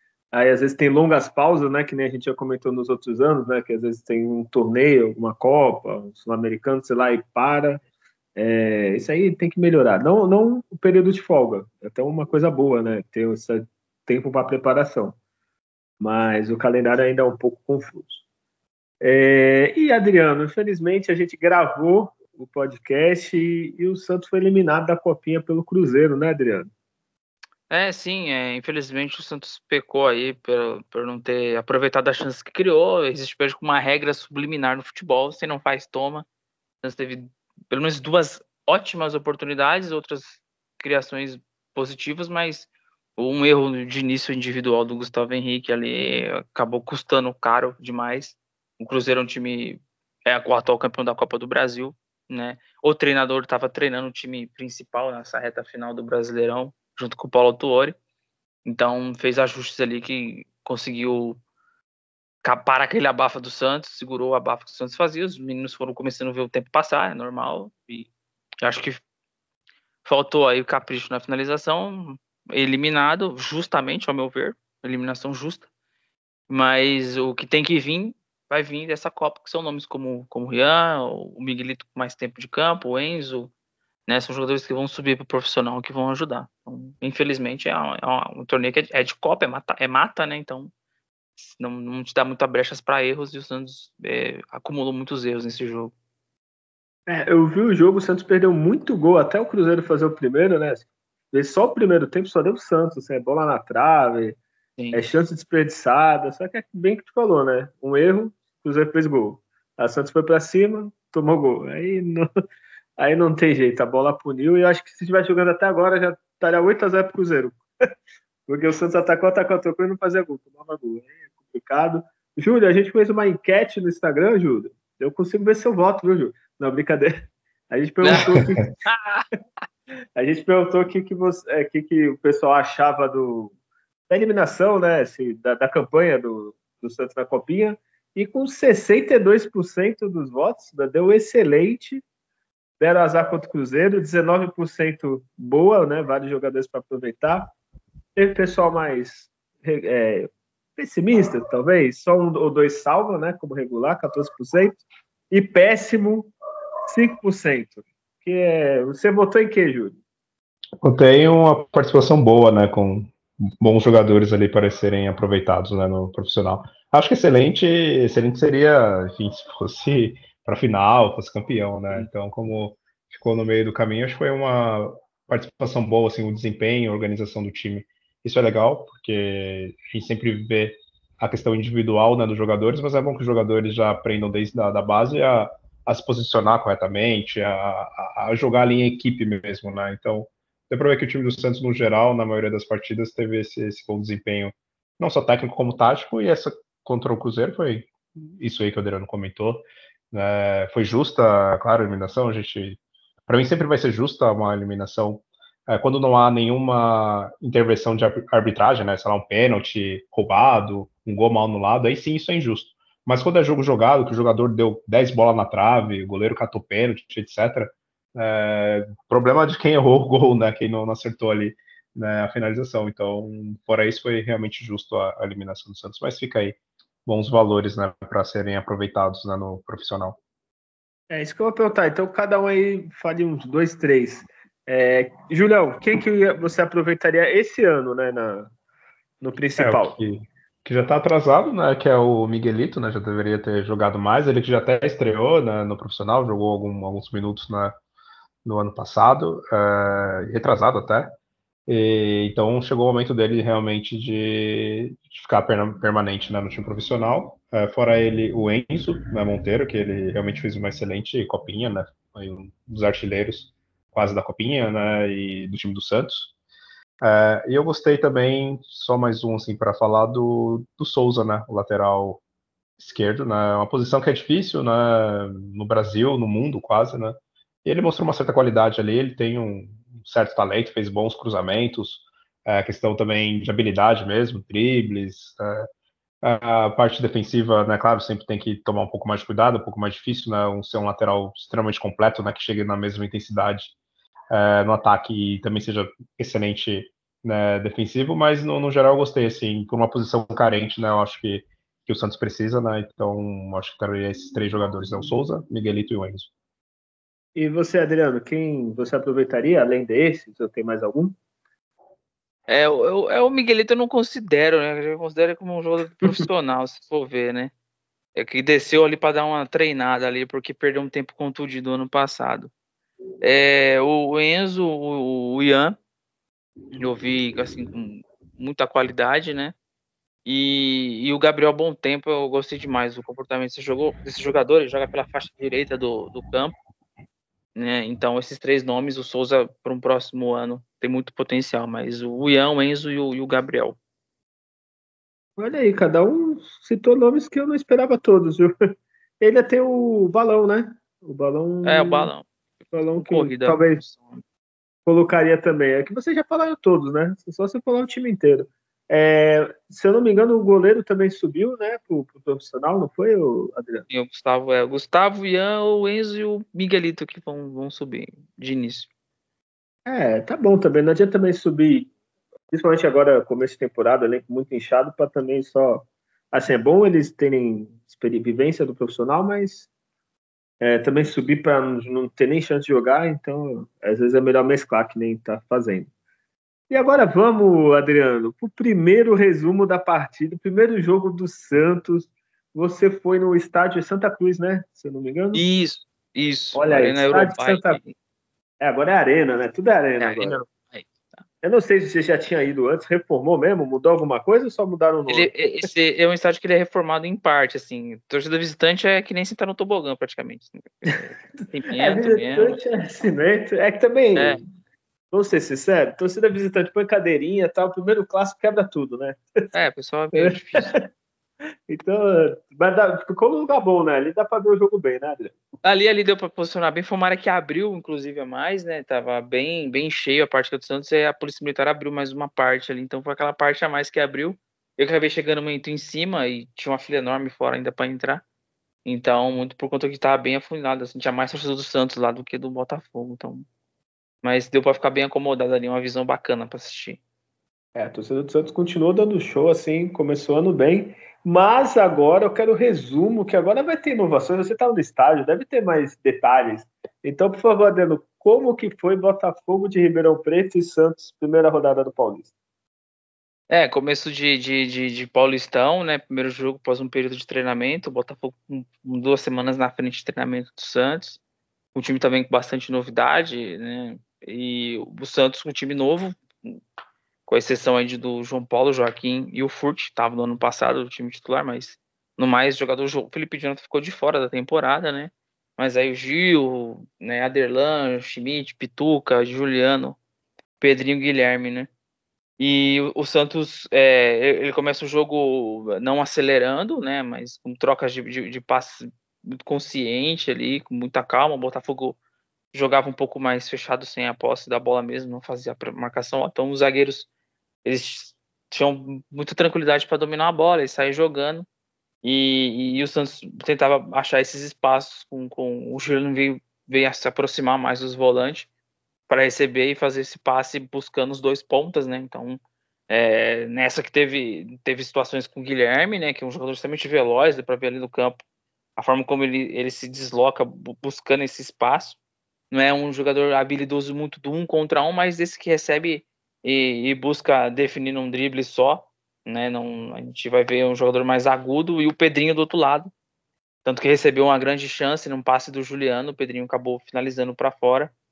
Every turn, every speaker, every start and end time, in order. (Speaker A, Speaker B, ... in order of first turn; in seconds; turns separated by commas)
Speaker A: 0.3-7.8, Speaker A: 8.4-15.2, Speaker A: 16.0-18.2, Speaker A: 19.0-26.7, Speaker B: 27.7-36.3, Speaker B: 36.8-58.0, Speaker B: 58.6-61.4, Speaker B: 62.4-68.1, Speaker B: 68.6-69.0, Speaker B: 70.0-75.7, Speaker B: 76.5-83.5, Speaker B: 84.1-90.7, Speaker B: 91.4-95.9, Speaker A: 97.1-104.4, Speaker B: 104.8-105.0, Speaker A: 104.9-112.3, Speaker A: 113.0-117.7, Speaker A: 118.5-128.6, Speaker B: 128.0-129.2, Speaker A: 130.2-133.5, Speaker A: 134.1-142.0, Speaker A: 142.8-147.5, Speaker A: 148.2-156.3, Speaker A: 156.8-160.0, Speaker C: 160.8-230.2, Speaker A: 231.1-238.5, Speaker A: 239.2-240.0, Speaker C: 239.6-247.8, Speaker C: 248.4-251.1, Speaker C: 251.7-266.3, Speaker C: 267.0-272.2, Speaker C: 272.8-285.7, Speaker C: 286.2-293.7, Speaker C: 294.3-306.3, Speaker A: 307.4-311.2, Speaker B: 312.5-317.5, Speaker B: 318.1-322.5, Speaker B: 323.2-325.8, Speaker B: 326.8-329.5, Speaker B: 330.2-336.6, Speaker B: 337.6-343.8, Speaker A: 345.4-348.5, Speaker A: 349.2-352.1, Speaker B: 351.6-352.3, Speaker A: 352.7-353.8, Speaker B: 352.9-354.2, Speaker A: 354.9-363.9, Speaker B: 363.9-368.9, Speaker A: 369.9-371.9, Speaker A: 372.5-379.7, Speaker A: 380.6-385.9, Speaker A: 386.7-395.4, Speaker B: 395.3-397.9, Speaker A: 396.6-397.8, Speaker A: 398.6-400.4, Speaker B: 400.0-400.9, Speaker A: 401.4-405.3, Speaker B: 405.1-412.6, Speaker A: 411.7-414.5, Speaker A: 415.1-419.2, Speaker B: 419.5-420.7, Speaker A: 420.1-420.8, Speaker A: 421.7-425.4, Speaker B: 425.6-438.2, Speaker B: 438.9-443.5, Speaker B: 444.2-447.0, Speaker A: 447.8-462.3, Speaker B: 463.5-471.2, Speaker B: 471.8-476.6, Speaker B: 477.3-490.0, Speaker B: 490.6-491.7, Speaker B: 492.4-502.0, Speaker B: 502.5-507.1, Speaker B: 507.6-511.5, Speaker B: 512.0-518.5, Speaker B: 519.1-528.2, Speaker B: 528.8-532.0, Speaker B: 532.5-542.9, Speaker B: 543.6-547.9